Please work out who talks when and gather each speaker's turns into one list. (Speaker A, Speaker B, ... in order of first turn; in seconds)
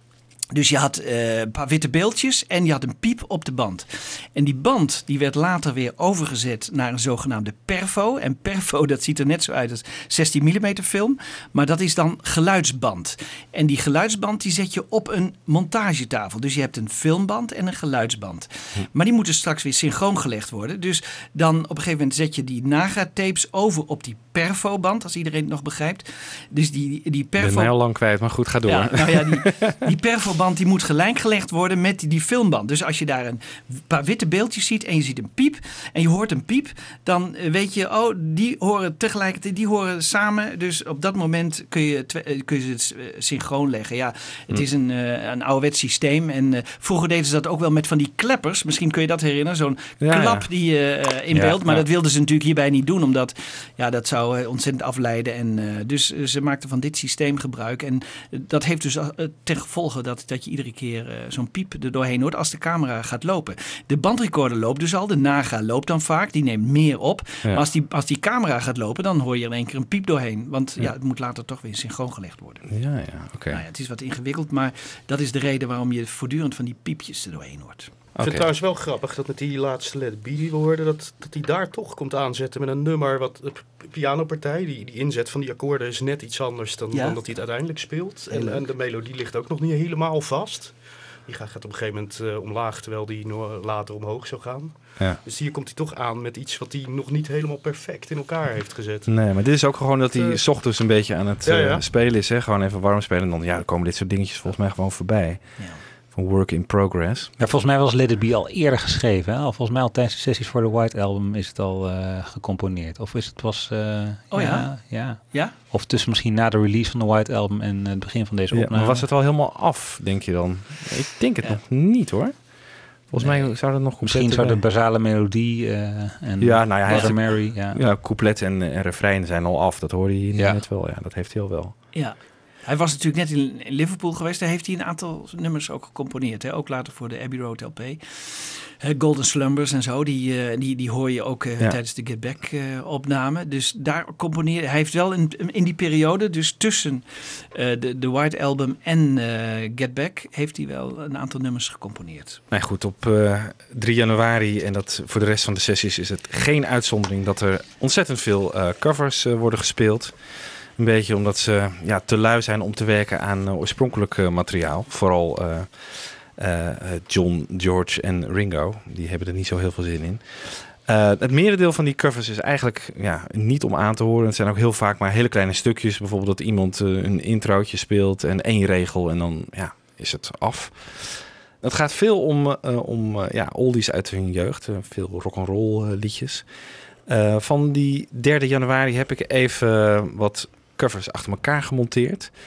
Speaker A: 0.5-27.7, 28.7-72.7, 73.5-77.9, 86.9-87.2, 114.3-115.5, 126.9-127.3, 131.9-152.4
Speaker B: 27.4-29.8, 50.0-50.5, 51.4-51.8, 72.7-73.6, 78.2-78.5, 99.1-107.3, 118.5-124.6, 126.4-131.8, 152.5-186.5, 187.1-192.3
Speaker C: 78.2-99.1, 100.1-100.4, 101.4-101.9
Speaker D: 107.4-119.0, 123.2-127.8, 130.3-130.6